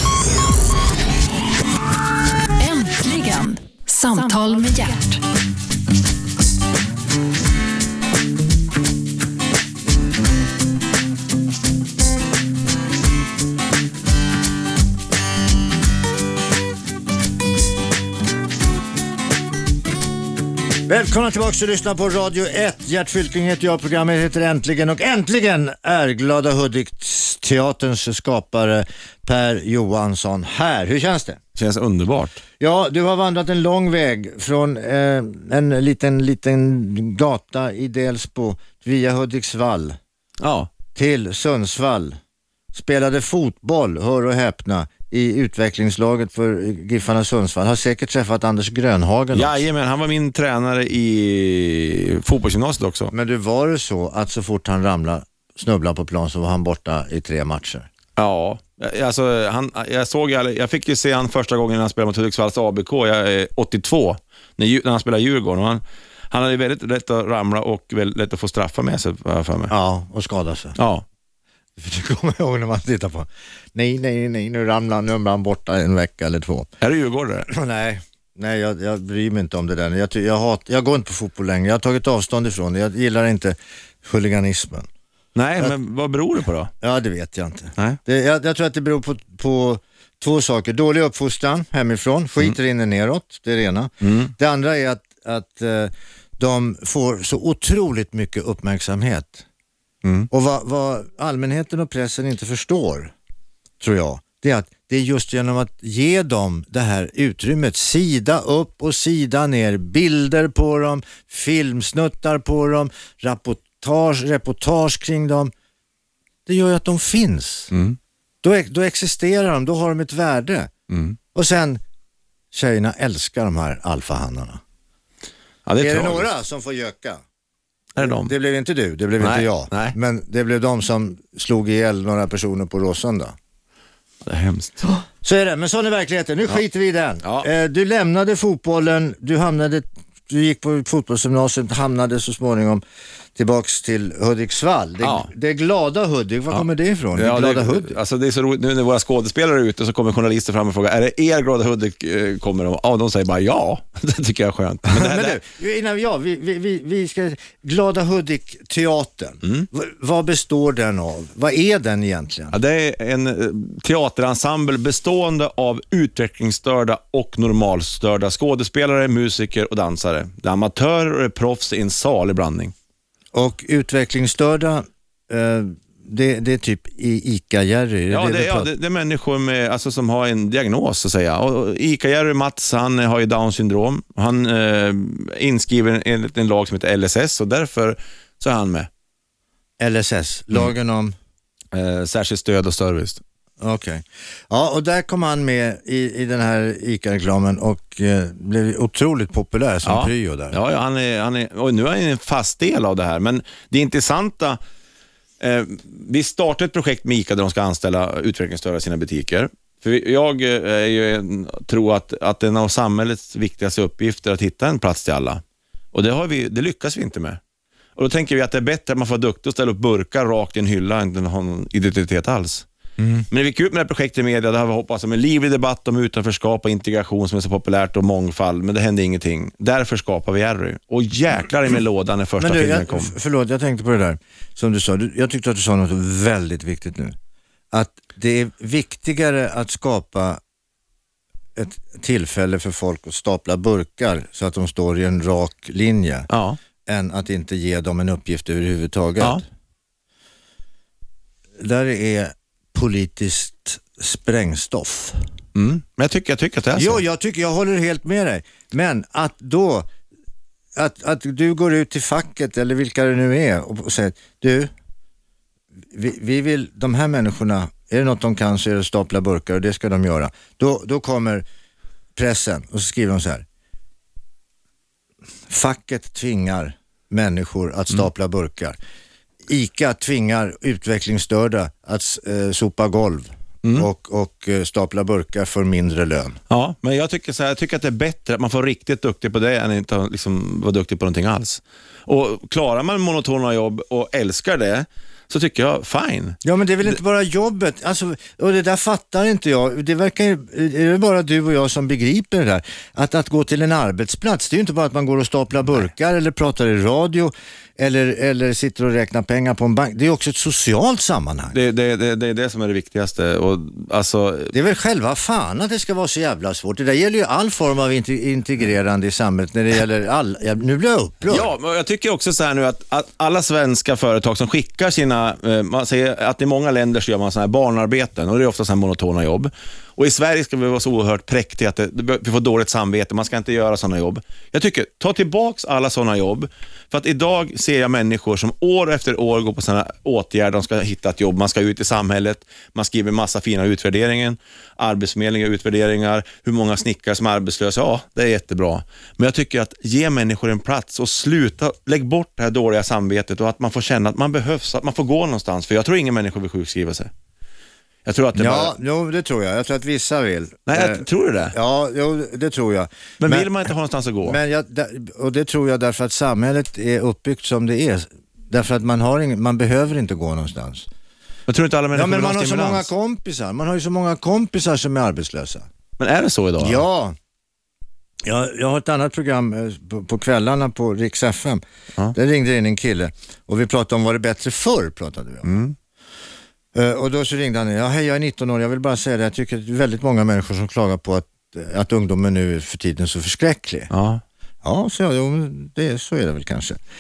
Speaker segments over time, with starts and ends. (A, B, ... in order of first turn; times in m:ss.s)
0:02.6-0:05.2 A
0:20.9-0:31.4 B
0:31.6-0:32.4 C
0:32.6-0:40.0 B
0:40.4-0:40.7 C
0:40.9-0:42.2 B
0:42.7-0:49.6 B
0:49.3-0:53.1 C
0:53.1-0:57.9 B
0:58.2-1:09.7 C
1:09.7-1:10.8 B
1:10.8-1:11.0 C
1:11.8-1:16.7 B
1:16.8-1:17.5 C
1:17.5-1:24.9 B
1:25.4-1:26.7 C
1:26.8-1:39.4 B
1:34.0-1:34.3 C
1:40.0-1:40.3 C
1:40.3-1:43.1 B
1:43.8-1:55.5 B
1:56.4-1:57.7 B
1:57.7-1:58.0 C
1:58.4-2:00.7 B
2:00.9-2:01.2 C
2:01.3-2:01.8 B
2:02.5-2:04.6 B
2:05.6-2:06.3 C
2:05.8-2:07.2 B
2:08.0-2:08.3 C
2:08.0-2:13.4 B
2:09.2-2:10.0 C
2:14.2-2:15.0 C
2:15.2-2:22.8 B
2:17.2-2:17.5 C
2:23.4-2:28.0 B
2:25.0-2:25.3 C
2:26.5-2:35.4 C
2:34.9-2:42.5 B
2:39.4-2:39.7 C
2:42.5-2:52.7 C
2:53.3-2:58.7 B
2:58.1-3:08.9 C
3:09.8-3:11.1 B
3:11.7-3:13.2 C
3:13.6-3:20.6 B
3:19.8-3:24.6 C
3:25.4-3:35.4 C
3:35.9-3:37.4 C
3:38.0-3:42.6 C
3:43.0-3:43.2 B
3:43.3-3:53.1 C
3:52.4-3:57.2 B
3:57.7-4:00.4 B
4:01.6-4:06.3 B
4:06.3-4:06.6 C
4:06.9-4:09.4 B
4:11.6-4:15.2 B
4:15.5-4:17.0 C
4:16.8-4:19.9 B
4:20.7-4:24.7 B
4:25.9-4:31.4 B
4:32.2-4:33.4 B
4:35.5-4:38.8 B
4:39.5-4:46.4 B
4:46.5-4:57.0 C
4:56.4-5:11.6 B
5:11.5-5:14.5 C
5:14.5-5:21.5 B
5:21.3-5:57.1 C
5:58.0-5:58.8 C
5:58.4-6:03.5 B
6:00.7-6:01.5 C
6:03.2-6:04.4 C
6:04.2-6:10.9 B
6:11.5-6:12.9 C
6:11.9-6:15.7 B
6:16.0-6:16.8 C
6:16.6-6:17.2 B
6:18.2-6:21.6 B
6:22.1-6:25.5 B
6:25.4-6:25.7 C
6:26.7-6:33.9 B
6:33.9-6:34.2 C
6:34.6-6:36.8 B